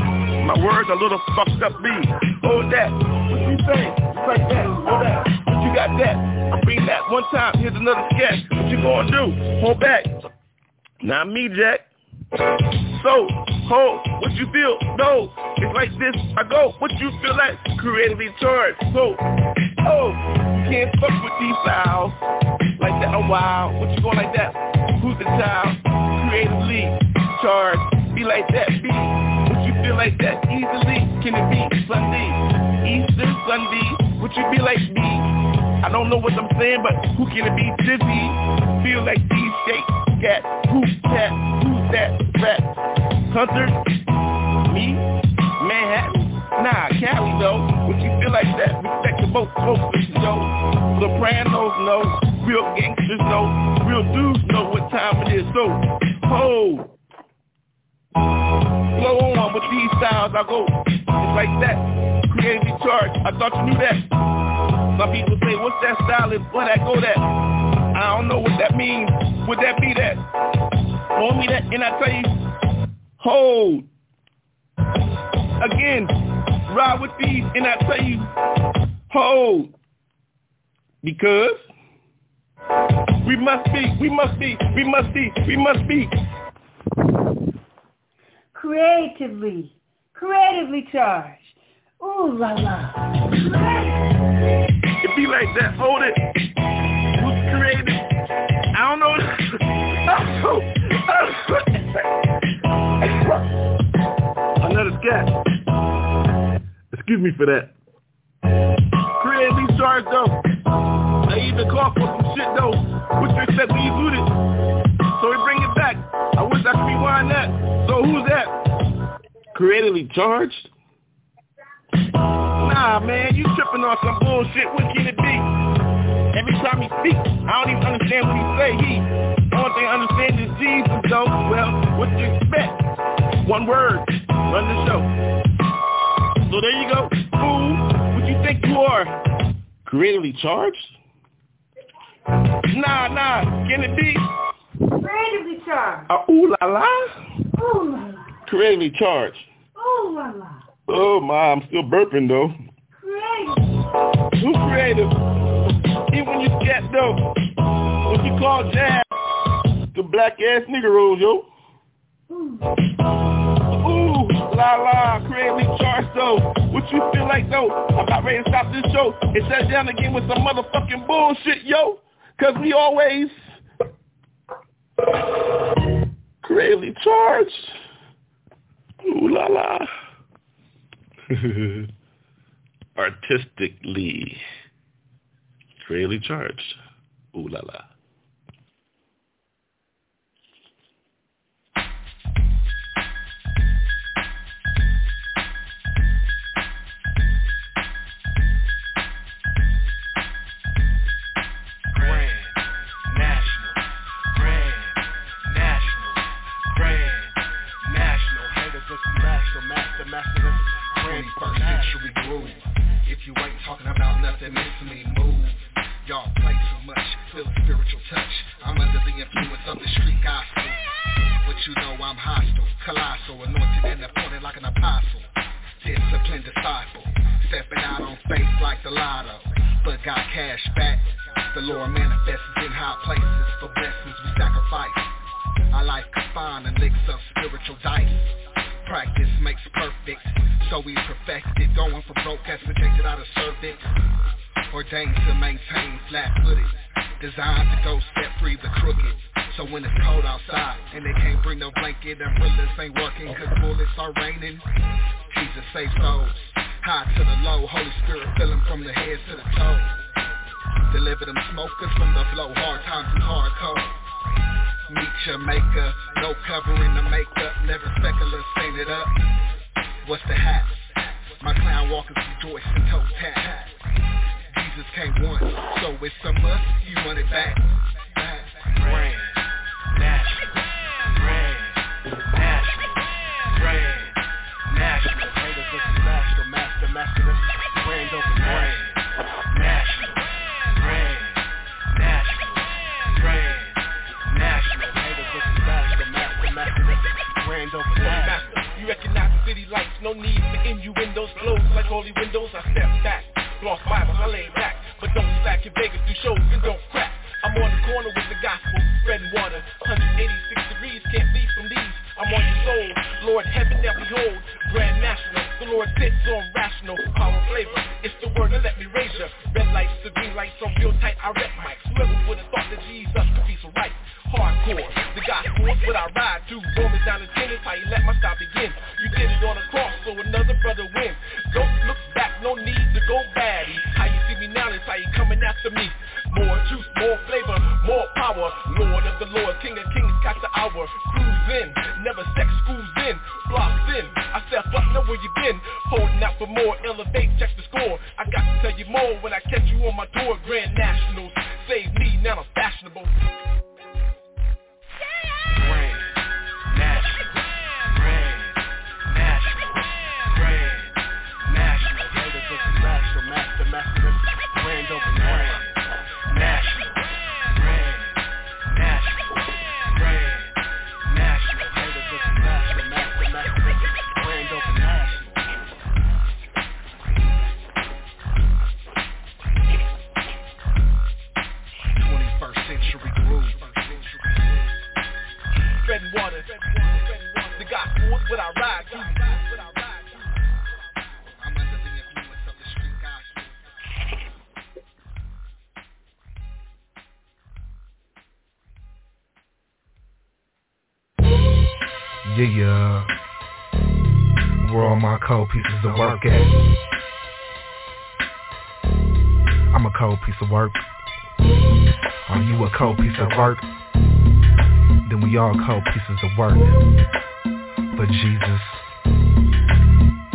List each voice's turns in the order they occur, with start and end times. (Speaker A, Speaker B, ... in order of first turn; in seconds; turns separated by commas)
Speaker A: 0.4-10.1, Speaker A: 11.0-11.9, Speaker A: 12.9-19.2, Speaker A: 19.8-22.2, Speaker A: 22.8-35.2, Speaker A: 35.8-42.7, Speaker A: 43.3-43.8, Speaker A: 44.6-45.0, Speaker A: 45.6-56.9, Speaker A: 58.9-64.0, Speaker A: 64.9-67.2, Speaker A: 67.9-70.2, Speaker A: 71.1-72.3, Speaker A: 73.2-73.9, Speaker A: 75.6-76.1, Speaker A: 76.7-78.3, Speaker A: 79.1-79.7, Speaker A: 81.0-81.6, Speaker A: 83.2-86.1, Speaker B: 88.5-93.9, Speaker A: 95.0-96.2, Speaker A: 97.2-98.0, Speaker A: 98.7-102.0, Speaker A: 103.0-103.5, Speaker A: 104.6-105.3, Speaker A: 106.9-107.7, Speaker A: 109.2-110.4, Speaker A: 111.3-114.3, Speaker A: 115.2-118.5, Speaker A: 119.5-120.7, Speaker A: 122.6-125.5, Speaker A: 126.3-132.8, Speaker A: 133.4-135.1, Speaker A: 136.5-139.1, Speaker A: 139.8-140.9, Speaker A: 142.7-144.2, Speaker B: 145.0-146.1, Speaker A: 146.1-147.1, Speaker B: 147.6-148.3, Speaker A: 148.5-149.4, Speaker B: 149.8-150.6, Speaker A: 150.9-152.6, Speaker B: 153.0-153.6, Speaker A: 154.4-155.1, Speaker A: 156.1-157.2, Speaker A: 158.1-159.1, Speaker A: 159.9-161.4, Speaker B: 162.3-162.7, Speaker A: 163.7-173.4, Speaker A: 176.4-177.7, Speaker A: 179.0-179.9, Speaker A: 181.3-181.8, Speaker A: 183.0-184.4, Speaker A: 185.8-186.8, Speaker A: 187.3-187.8, Speaker C: 208.1-212.6, Speaker C: 213.1-215.5, Speaker C: 216.1-220.7, Speaker C: 221.4-225.2, Speaker C: 225.8-231.0, Speaker C: 231.5-235.0, Speaker C: 235.8-238.3, Speaker C: 238.9-243.8, Speaker C: 244.7-246.7, Speaker C: 247.3-254.6, Speaker C: 255.3-259.9, Speaker C: 260.9-263.9, Speaker C: 264.9-269.1, Speaker C: 270.0-270.8, Speaker C: 271.4-273.6, Speaker C: 274.6-277.6, Speaker C: 278.2-279.3, Speaker C: 284.9-288.8, Speaker C: 294.3-298.3, Speaker D: 298.1-353.1, Speaker C: 361.6-365.6, Speaker C: 366.4-366.7, Speaker C: 371.1-375.3, Speaker C: 381.9-384.4, Speaker D: 385.8-390.0, Speaker C: 391.4-393.5, Speaker E: 402.2-403.1, Speaker E: 404.6-406.6, Speaker E: 409.7-410.8, Speaker E: 412.2-413.6, Speaker E: 415.0-416.8, Speaker E: 417.9-418.9